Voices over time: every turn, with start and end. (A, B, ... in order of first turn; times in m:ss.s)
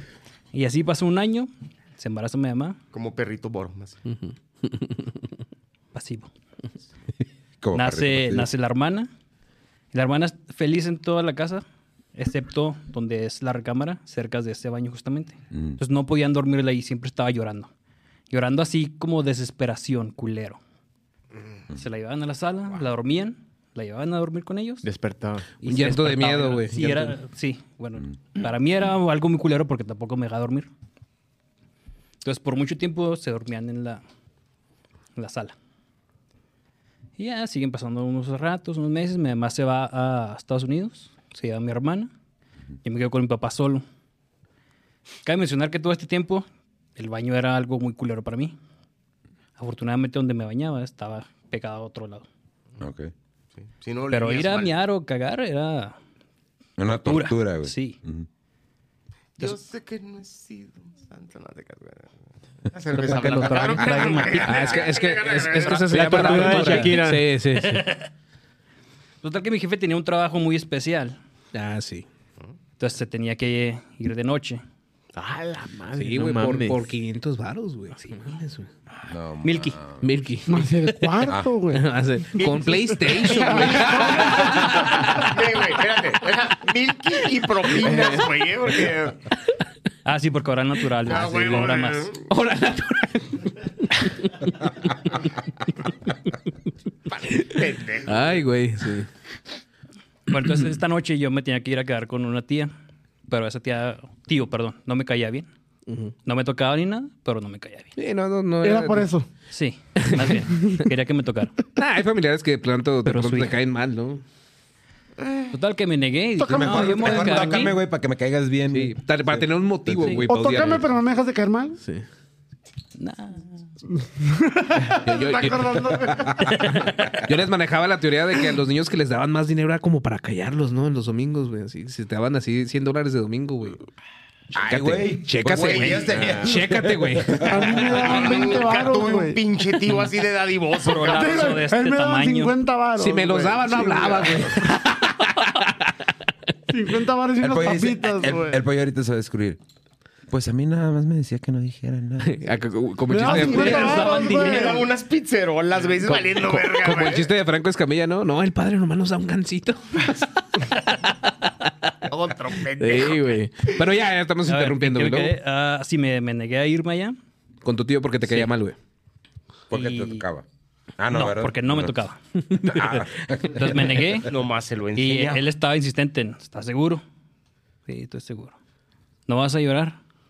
0:00.5-0:02.8 A
0:02.9-0:04.0 B
0:04.1-0:05.2 C
0:05.9-0:06.3 A
0:07.6-0:08.5 D
0:07.7-0:09.1 A
0:09.9-0:11.6 A
0:12.2-0:17.7 A
0:15.5-0:15.8 D
0:18.3-0:20.6 A
0:21.8-0:24.9 A
0:24.8-0:25.5 E
0:25.6-0:30.7 A
0:25.6-0:27.1 C
0:32.2-0:34.0 A
0:35.2-0:35.5 A
0:37.2-0:42.1 A
0:42.8-0:43.8 A
0:45.2-0:46.4 A
0:47.0-0:48.6 A
0:49.6-0:52.3 A
0:52.8-0:53.1 D
0:53.8-0:54.8 B
0:54.1-0:56.0 A
0:56.8-0:58.3 D
0:56.9-0:58.0 A
0:59.4-1:02.1 B
1:02.6-1:06.8 B
1:03.0-1:03.7 C
1:03.0-1:04.8 A
1:03.8-1:04.6 D
1:04.4-1:07.9 C
1:05.9-1:07.3 E
1:07.6-1:08.1 A
1:09.2-1:11.2 A
1:11.5-1:12.1 C
1:12.8-1:14.6 A
1:15.2-1:16.9 E
1:15.9-1:18.7 C
1:19.1-1:20.1 D
1:19.4-1:19.8 A
1:20.0-1:21.1 C
1:20.5-1:21.9 F
1:21.7-1:25.4 C
1:22.4-1:29.2 B
1:23.2-1:25.1 F
1:27.8-1:28.2 C
1:30.0-1:32.1 A
1:31.0-1:32.2 B
1:32.3-1:35.3 C
1:37.1-1:38.4 B
1:38.1-1:39.1 C
1:40.3-1:42.7 A
1:43.3-1:45.5 A
1:45.9-1:46.1 C
1:46.2-1:47.9 A
1:48.0-1:49.1 C
1:48.6-1:49.3 F
1:49.5-1:51.6 A
1:50.0-1:50.8 C
1:51.8-1:54.2 C
1:53.0-1:53.5 A
1:55.2-1:55.5 B
1:55.5-1:57.8 A
1:56.4-1:57.6 F
1:56.5-2:00.2 D
1:58.7-2:00.9 C
2:00.2-2:01.8 F
2:03.0-2:03.7 A
2:04.2-2:07.1 F
2:04.9-2:05.8 C
2:06.3-2:06.5 D
2:06.7-2:13.8 C
2:14.5-2:18.2 D
2:14.6-2:17.6 C
2:15.4-2:16.2 B
2:17.4-2:19.4 F
2:17.8-2:21.6 B
2:20.9-2:22.6 A
2:21.0-2:24.4 F
2:23.0-2:25.8 C
2:26.7-2:28.6 F
2:27.4-2:29.6 D
2:30.3-2:32.5 D
2:32.2-2:34.2 C
2:33.1-2:34.9 F
2:33.2-2:34.8 A
2:33.5-2:37.3 B
2:36.0-2:41.7 C
2:42.0-2:43.4 B
2:42.8-2:45.4 C
2:44.5-2:47.2 A
2:47.6-2:48.8 C
2:48.2-2:48.5 A
2:49.7-2:50.4 D
2:49.7-2:50.2 A
2:51.0-2:52.0 D
2:51.1-2:54.3 A
2:52.6-2:54.2 D
2:54.3-2:55.4 B
2:55.0-2:57.0 A
2:57.9-2:58.6 A
2:59.3-3:00.0 A